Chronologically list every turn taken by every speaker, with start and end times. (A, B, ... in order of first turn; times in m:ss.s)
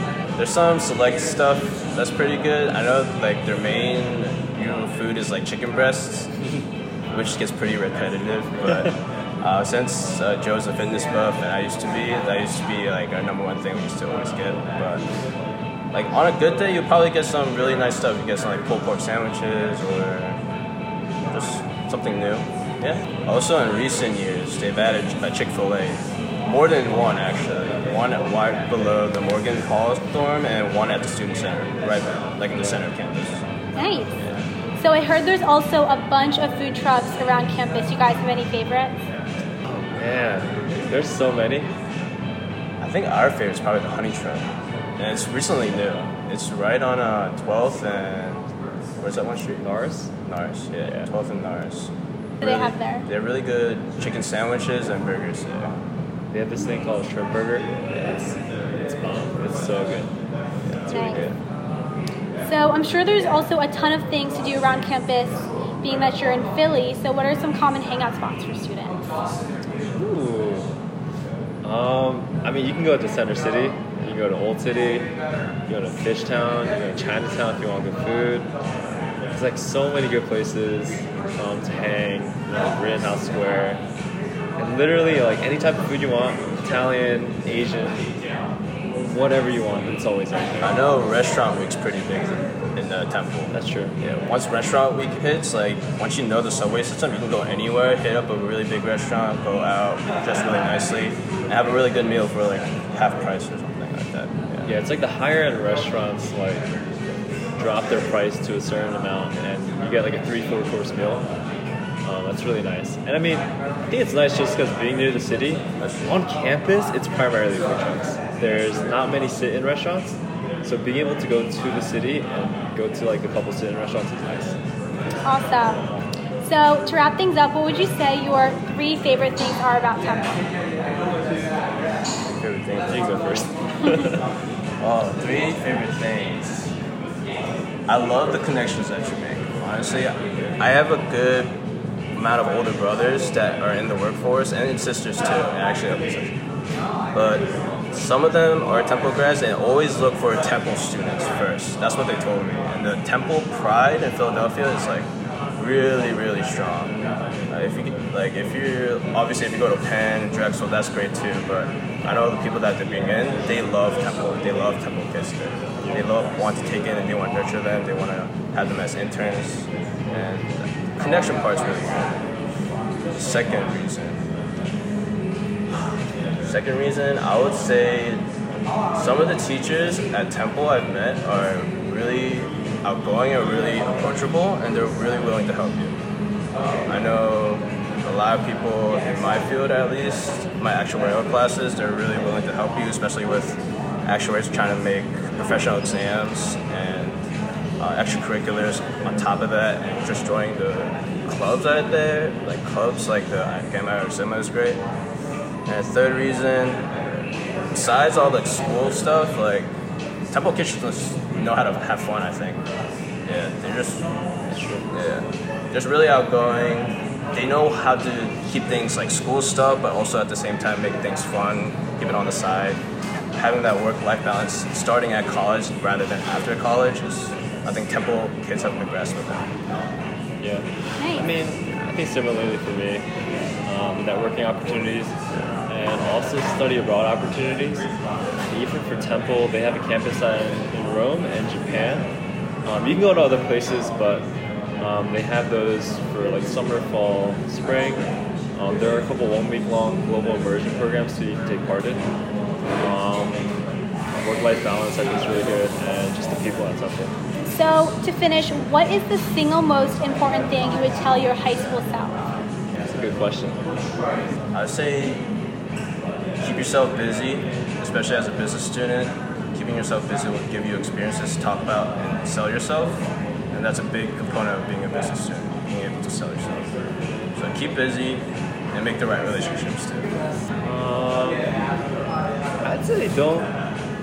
0:00.4-0:06.3 A
0:07.1-0:15.0 A
0:15.9-0:20.4 A
0:21.3-0:33.4 A
0:33.8-0:34.1 B
0:34.2-0:34.4 A
0:34.8-0:39.0 B
0:39.6-0:41.7 C
0:42.8-0:48.4 A
0:49.0-0:49.6 A
0:49.6-0:50.1 C
0:50.2-0:55.7 A
0:52.4-0:53.1 B
0:56.3-1:00.1 C
1:00.6-1:01.4 A
1:00.9-1:01.2 B
1:02.4-1:09.0 B
1:09.9-1:10.7 C
1:11.6-1:15.1 C
1:15.7-1:18.5 C
1:19.3-1:23.8 C
1:24.6-1:28.1 C
1:29.0-1:30.8 C
1:30.6-1:44.7 A
1:33.5-1:33.9 C
1:44.6-1:46.7 C
1:47.6-1:51.3 C
1:52.0-2:04.6 C
1:55.8-1:56.1 A
2:05.2-2:05.8 B
2:06.4-2:10.5 B
2:12.3-2:13.4 A
2:12.9-2:14.2 C
2:14.8-2:16.7 A
2:17.9-2:21.5 A
2:22.1-2:26.3 A
2:27.1-2:52.2 A
2:53.1-2:54.2 A
2:55.7-2:58.2 A
2:58.9-3:06.0 A
3:06.6-3:17.2 A
3:17.8-3:24.8 A
3:25.7-3:27.2 A
3:27.7-3:29.7 A
3:30.3-3:32.6 A
3:33.2-3:34.0 A
3:34.5-3:34.9 C
3:34.9-3:42.8 A
3:43.3-3:49.5 A
3:50.4-3:53.0 C
3:51.0-3:51.3 B
3:53.6-3:57.9 C
3:58.5-4:02.1 C
4:02.6-4:04.3 C
4:04.8-4:12.0 C
4:12.8-4:13.6 C
4:14.1-4:17.1 C
4:17.4-4:22.2 B
4:22.8-4:23.6 C
4:24.5-4:25.2 A
4:26.4-4:36.7 A
4:37.3-4:40.1 A
4:40.6-4:41.5 C
4:42.6-4:43.5 C